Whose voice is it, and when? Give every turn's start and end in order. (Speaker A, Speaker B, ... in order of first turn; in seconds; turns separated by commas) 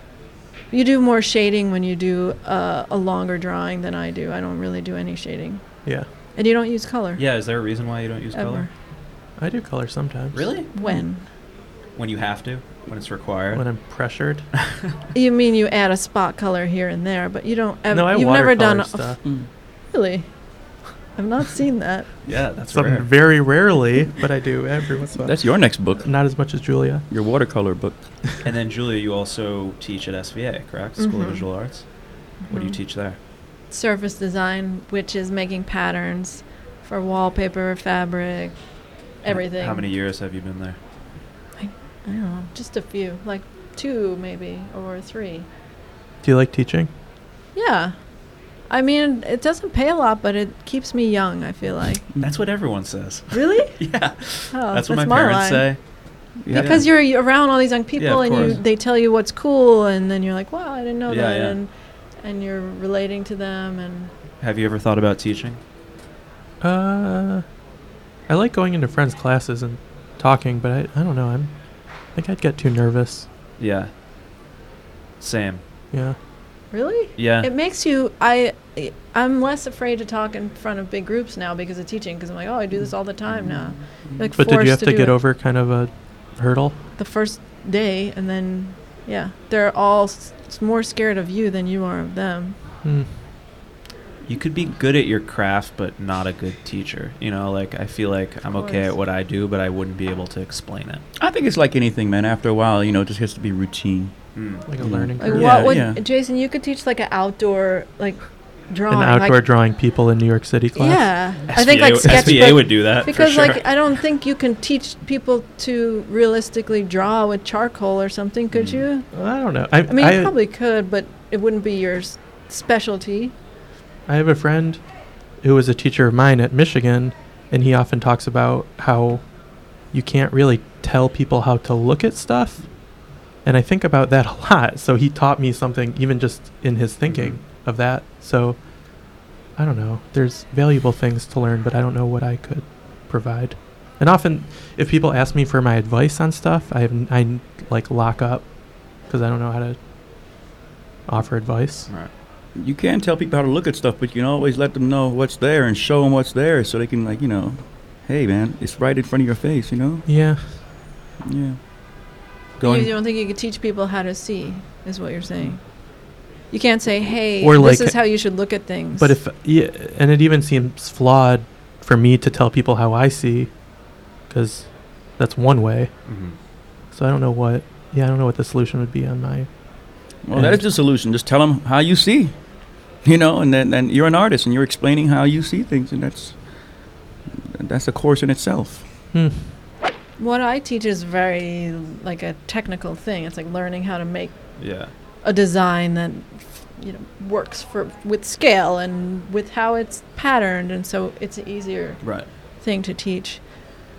Speaker A: 0.7-5.6, Speaker A: 6.3-7.2, Speaker B: 7.2-8.7, Speaker A: 8.3-8.7, Speaker C: 9.4-10.5, Speaker B: 10.3-10.7, Speaker A: 10.7-11.2, Speaker B: 11.9-13.7, Speaker C: 13.5-14.5, Speaker A: 15.1-19.2, Speaker C: 17.9-19.2, Speaker A: 19.9-20.3, Speaker A: 21.1-22.1, Speaker B: 22.2-23.1, Speaker C: 22.7-27.1, Speaker D: 25.2-26.1, Speaker D: 27.1-28.0, Speaker B: 28.4-33.2, Speaker A: 31.0-31.5, Speaker A: 32.4-32.8, Speaker A: 33.7-38.6, Speaker A: 39.2-39.9, Speaker B: 39.2-40.8, Speaker A: 41.6-45.5, Speaker C: 46.2-46.9, Speaker A: 47.5-47.9, Speaker A: 48.7-52.0, Speaker B: 52.2-55.8, Speaker A: 53.3-53.8, Speaker A: 54.5-55.7, Speaker D: 56.4-56.9, Speaker B: 56.5-56.9, Speaker A: 56.5-61.7, Speaker B: 58.0-58.6, Speaker D: 58.2-58.6, Speaker B: 61.1-61.6, Speaker A: 62.2-64.1, Speaker B: 64.4-65.6, Speaker C: 66.6-67.4, Speaker C: 68.3-71.5, Speaker C: 72.1-73.3, Speaker B: 73.6-73.9, Speaker B: 75.2-75.6, Speaker C: 75.9-76.2, Speaker A: 76.7-85.2, Speaker B: 77.2-77.5, Speaker C: 84.4-86.8, Speaker A: 87.0-92.5, Speaker C: 92.8-93.1, Speaker B: 94.2-101.0, Speaker A: 98.5-98.9, Speaker D: 101.2-104.2, Speaker B: 104.3-104.7, Speaker C: 104.7-105.8, Speaker D: 104.8-106.0, Speaker A: 105.2-109.4, Speaker C: 108.9-111.1, Speaker A: 110.7-119.1, Speaker B: 111.5-113.7, Speaker C: 112.0-112.5, Speaker B: 118.5-118.8, Speaker C: 119.1-120.3, Speaker A: 119.9-123.3, Speaker C: 124.1-124.8, Speaker C: 125.4-129.3, Speaker C: 129.9-132.8, Speaker C: 133.4-138.7, Speaker B: 137.1-137.4, Speaker C: 139.6-149.8, Speaker C: 151.1-151.9, Speaker D: 152.5-160.1, Speaker C: 160.1-160.6, Speaker D: 161.2-161.6, Speaker B: 162.6-162.9, Speaker A: 162.6-165.8, Speaker A: 166.5-169.2, Speaker C: 167.4-168.1, Speaker C: 169.0-173.6, Speaker C: 174.3-175.9, Speaker B: 176.1-176.4, Speaker C: 176.9-179.5, Speaker D: 180.2-182.4, Speaker C: 180.3-180.6, Speaker D: 183.0-186.4, Speaker D: 187.5-188.8, Speaker C: 189.1-189.5, Speaker A: 190.2-194.4, Speaker B: 194.6-194.9, Speaker A: 195.2-203.4, Speaker B: 202.0-202.3